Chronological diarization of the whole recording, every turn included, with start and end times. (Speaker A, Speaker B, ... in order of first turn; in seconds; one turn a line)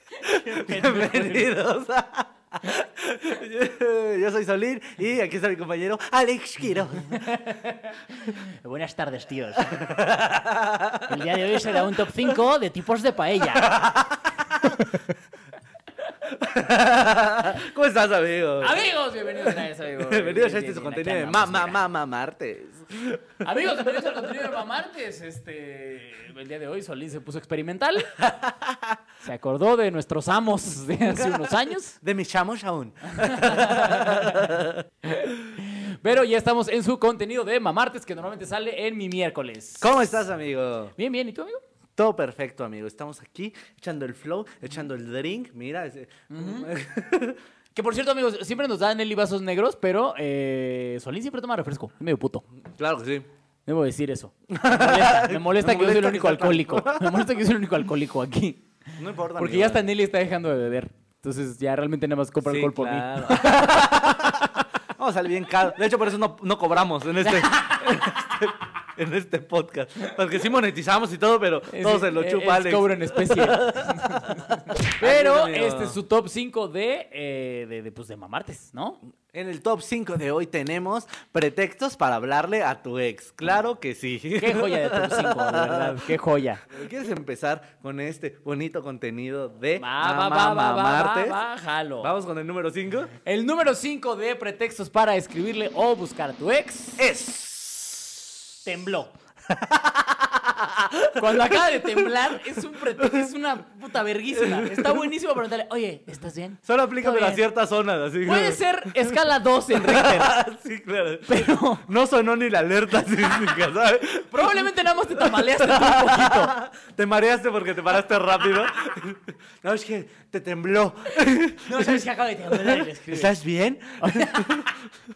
Speaker A: 0.1-1.5
Speaker B: 0.2-7.3
Speaker A: 7.1-9.9
Speaker B: 9.7-11.8
Speaker A: 11.0-13.9
Speaker B: 13.4-15.0
Speaker B: 16.2-18.8
Speaker A: 18.6-21.8
Speaker B: 20.0-24.4
Speaker A: 23.4-28.3
Speaker B: 28.3-28.9
Speaker A: 29.2-32.0
Speaker B: 31.1-34.8
Speaker A: 33.1-40.1
Speaker B: 39.8-40.9
Speaker A: 41.0-41.6
Speaker B: 42.0-47.4
Speaker A: 46.3-46.7
Speaker A: 47.7-52.4
Speaker B: 52.7-53.3
Speaker A: 53.6-58.7
Speaker B: 54.5-57.2
Speaker B: 59.0-59.8
Speaker A: 59.4-64.6
Speaker B: 62.4-76.0
Speaker A: 67.2-68.1
Speaker A: 71.7-79.0
Speaker B: 79.3-86.1
Speaker A: 84.4-86.7
Speaker B: 86.7-91.4
Speaker A: 89.8-92.1
Speaker B: 92.0-93.1
Speaker A: 93.2-97.0
Speaker B: 97.0-98.4
Speaker A: 98.6-99.1
Speaker B: 99.5-103.3
Speaker A: 101.2-107.4
Speaker B: 104.3-105.1
Speaker B: 106.7-109.2
Speaker A: 108.2-110.4
Speaker B: 109.7-124.9
Speaker A: 111.3-111.9
Speaker A: 114.3-116.5
Speaker A: 121.6-123.3
Speaker A: 124.0-124.7